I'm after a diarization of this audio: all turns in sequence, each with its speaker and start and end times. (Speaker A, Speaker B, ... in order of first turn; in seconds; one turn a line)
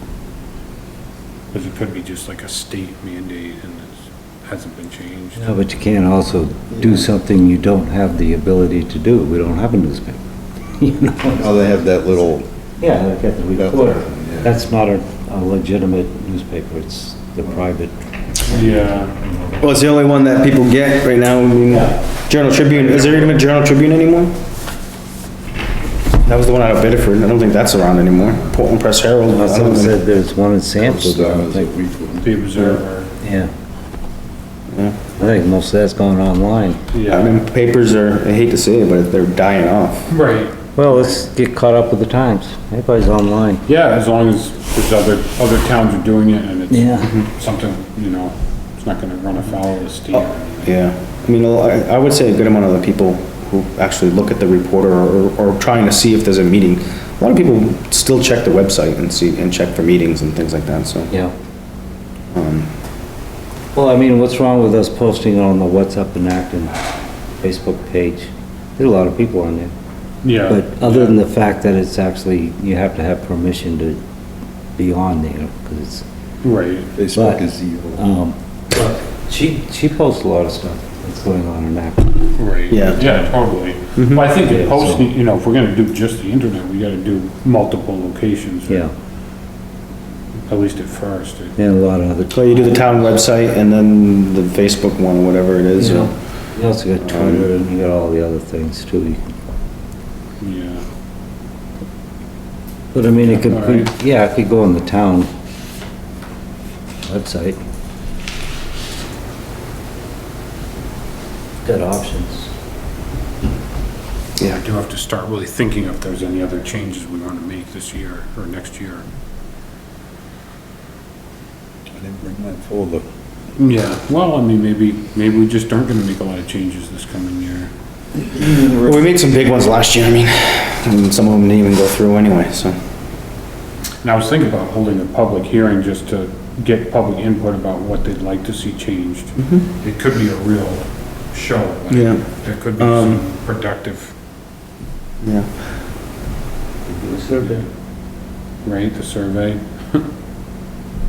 Speaker A: 1.5-5.5
Speaker B: 5.3-10.2
Speaker C: 6.7-7.0
Speaker B: 10.8-11.5
Speaker C: 11.3-12.5
Speaker B: 12.8-17.9
Speaker C: 13.6-14.5
Speaker A: 18.5-19.1
Speaker D: 19.6-24.4
Speaker A: 22.6-23.4
Speaker D: 26.2-30.0
Speaker B: 29.3-31.7
Speaker C: 30.8-32.3
Speaker A: 32.2-33.1
Speaker B: 33.2-33.5
Speaker D: 34.7-35.0
Speaker B: 35.2-36.8
Speaker A: 36.9-37.4
Speaker D: 37.1-40.1
Speaker A: 40.1-41.2
Speaker B: 40.8-43.6
Speaker A: 43.6-50.7
Speaker B: 46.7-47.1
Speaker D: 50.2-61.1
Speaker D: 62.3-62.7
Speaker B: 63.7-66.8
Speaker B: 67.4-69.7
Speaker A: 70.2-71.2
Speaker B: 70.5-74.0
Speaker B: 74.8-76.0
Speaker A: 76.4-76.9
Speaker C: 76.9-78.0
Speaker B: 77.1-77.4
Speaker B: 78.0-82.3
Speaker A: 82.3-88.9
Speaker D: 82.7-83.0
Speaker D: 84.0-84.3
Speaker B: 84.3-85.1
Speaker A: 90.5-91.5
Speaker B: 91.6-93.1
Speaker D: 92.3-96.1
Speaker B: 95.8-99.2
Speaker D: 97.1-97.5
Speaker A: 100.4-100.8
Speaker B: 102.9-105.3
Speaker A: 103.3-103.9
Speaker B: 107.0-107.6
Speaker B: 111.6-112.5
Speaker A: 114.5-119.0
Speaker C: 121.9-123.0
Speaker A: 123.6-127.7
Speaker D: 128.6-132.8
Speaker A: 134.0-144.1
Speaker D: 141.9-142.2
Speaker D: 142.8-143.2
Speaker D: 145.2-145.5
Speaker B: 146.9-147.7
Speaker A: 148.6-150.1